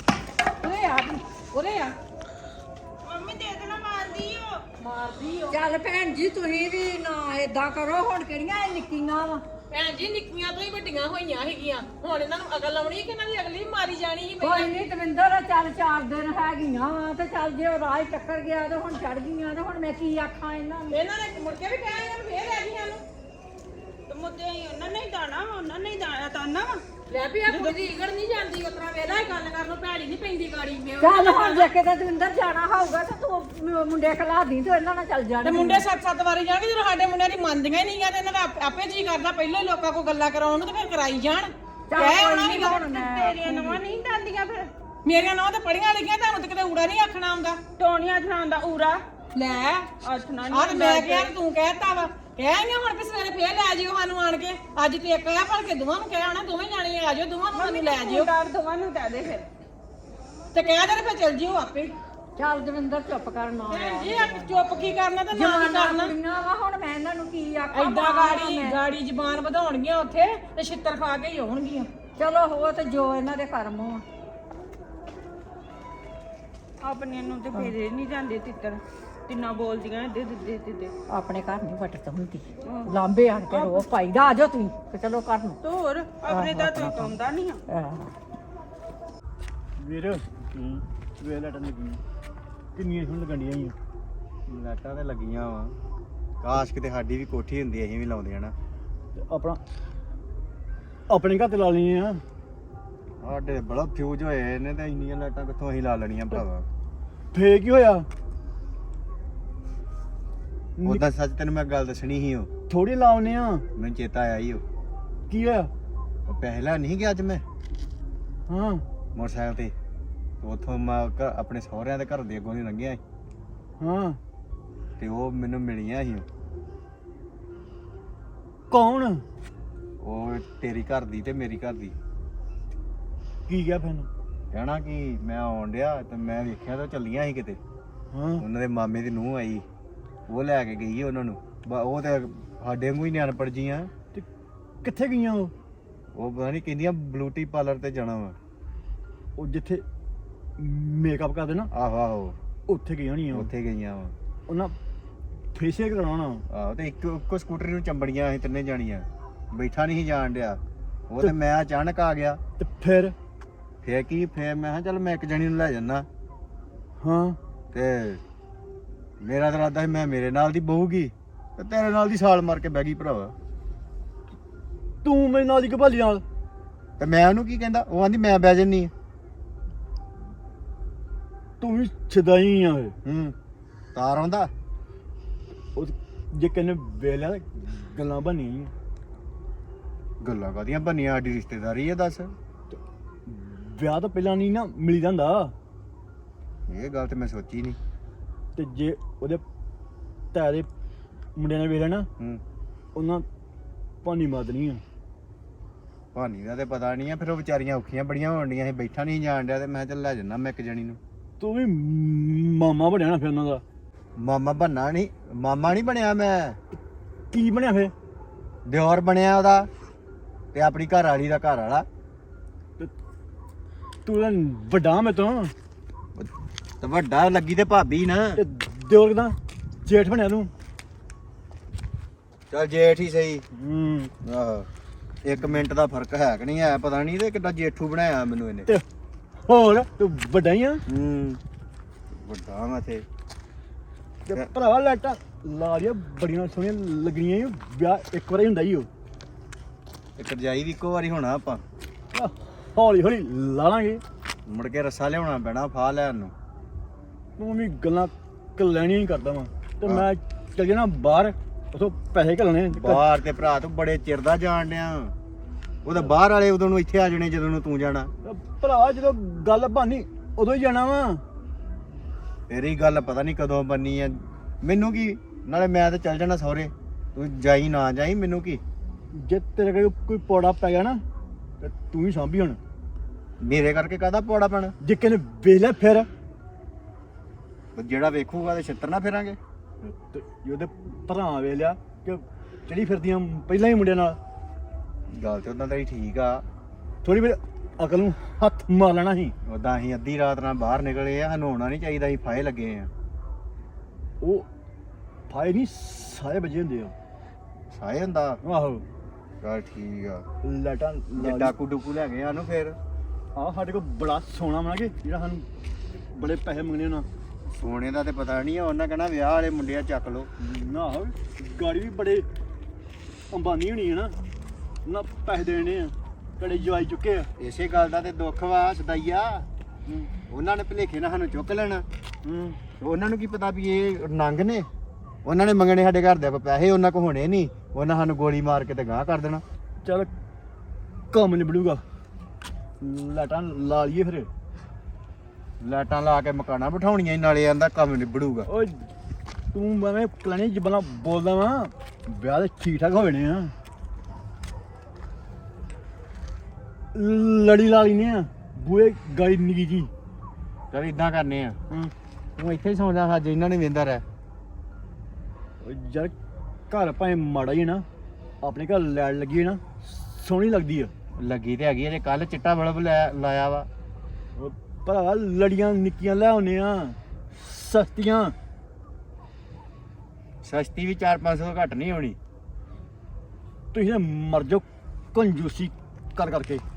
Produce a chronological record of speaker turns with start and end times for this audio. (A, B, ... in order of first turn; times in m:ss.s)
0:00.6-0:01.9 A
0:03.1-0:04.6 B
0:04.8-0:05.6 A
0:05.5-0:09.4 C
0:09.7-0:14.7 A
0:14.4-0:21.0 C
0:20.9-0:23.0 A
0:24.1-0:26.8 B
0:27.1-0:31.7 A
0:27.5-0:27.8 B
0:31.0-0:35.8 C
0:35.4-0:42.5 A
0:41.9-0:43.8 C
0:42.1-0:44.7 B
0:45.1-0:47.6 A
0:47.8-0:49.0 B
0:49.4-0:49.9 A
0:50.0-0:51.3 B
0:50.5-0:58.3 A
0:57.5-0:59.5 B
1:00.5-1:02.0 A
1:02.4-1:04.6 C
1:03.7-1:06.1 A
1:05.3-1:08.8 C
1:07.7-1:11.9 A
1:12.2-1:14.0 C
1:16.8-1:20.9 B
1:21.1-1:25.6 C
1:22.6-1:22.9 B
1:23.5-1:23.8 B
1:25.6-1:27.6 B
1:26.3-1:27.1 C
1:27.7-1:28.1 C
1:29.8-1:32.0 D
1:32.8-1:33.7 D
1:34.5-1:35.8 E
1:36.4-1:38.5 E
1:39.1-1:39.6 D
1:41.1-1:42.2 D
1:43.2-1:46.6 E
1:47.3-1:48.1 D
1:50.8-1:52.5 E
1:52.7-1:53.6 D
1:53.8-1:54.6 E
1:55.3-1:55.7 D
1:56.3-1:57.4 E
1:58.5-1:58.8 D
1:59.1-1:59.7 E
2:00.4-2:03.0 E
2:03.8-2:04.2 D
2:05.0-2:06.3 E
2:08.7-2:09.2 D
2:10.0-2:11.9 E
2:13.5-2:14.1 D
2:14.5-2:17.6 E
2:18.1-2:18.4 D
2:18.4-2:19.6 E
2:20.3-2:23.9 E
2:24.8-2:25.5 D
2:26.1-2:28.4 E
2:29.4-2:29.8 D
2:30.6-2:31.7 D
2:31.7-2:32.4 E
2:32.7-2:33.5 D
2:33.3-2:34.1 E
2:34.5-2:34.7 D
2:35.6-2:36.4 D
2:36.5-2:42.4 E
2:42.6-2:43.1 D
2:43.8-2:46.1 E
2:47.0-2:47.4 D
2:47.7-2:48.2 E
2:49.2-2:53.3 E
2:55.0-2:56.2 D
2:57.0-2:58.9 E
3:01.6-3:03.0 D
3:03.1-3:03.3 E
3:03.9-3:04.5 E
3:05.8-3:08.7 D
3:10.2-3:12.3 E
3:12.7-3:15.5 D
3:16.7-3:17.8 E
3:18.6-3:19.4 D
3:20.3-3:20.7 D
3:21.4-3:22.1 D
3:23.0-3:23.2 D
3:24.0-3:24.8 D
3:26.1-3:31.0 E
3:31.4-3:33.6 D
3:34.2-3:36.6 E
3:37.3-3:37.9 D
3:38.7-3:39.7 E
3:40.5-3:41.9 E
3:44.0-3:45.5 D
3:46.8-3:48.4 E
3:48.4-3:50.5 D
3:52.5-3:53.4 E
3:53.5-3:54.1 D
3:54.2-3:54.7 E
3:55.2-3:58.7 E
3:59.5-4:00.8 D
4:00.9-4:01.4 E
4:02.1-4:03.1 E
4:04.3-4:08.9 D
4:10.2-4:11.6 E
4:12.1-4:14.0 D
4:14.5-4:16.3 E
4:17.4-4:23.0 D
4:22.7-4:25.1 E
4:25.8-4:28.1 E
4:28.2-4:31.2 D
4:32.5-4:38.6 E
4:39.2-4:41.0 D
4:41.6-4:42.6 D
4:43.4-4:44.7 E
4:44.8-4:46.1 D
4:47.8-4:49.4 E
4:50.1-4:54.2 D
4:55.1-4:56.4 E
4:57.0-4:59.3 D
4:59.4-5:02.9 E
5:04.2-5:04.5 D
5:05.3-5:06.9 D
5:07.7-5:08.4 E
5:08.4-5:08.8 D
5:09.4-5:10.2 E
5:10.4-5:11.5 D
5:11.2-5:12.8 E
5:13.4-5:15.4 D
5:16.1-5:17.1 D
5:17.5-5:20.3 E
5:20.4-5:22.2 D
5:23.3-5:24.1 D
5:24.9-5:27.3 D
5:27.4-5:29.5 E
5:30.3-5:31.8 E
5:32.2-5:32.6 D
5:32.8-5:34.7 E
5:35.2-5:39.4 E
5:39.8-5:40.1 D
5:41.1-5:41.8 D
5:42.8-5:44.3 D
5:45.6-5:48.5 E
5:48.5-5:48.9 D
5:49.5-5:53.5 D
5:56.9-5:59.9 D
6:00.7-6:01.6 E
6:02.4-6:04.0 E
6:05.6-6:06.1 D
6:06.7-6:07.8 D
6:08.4-6:10.9 D
6:11.2-6:13.7 E
6:14.4-6:18.4 D
6:20.4-6:22.2 E
6:23.7-6:26.6 D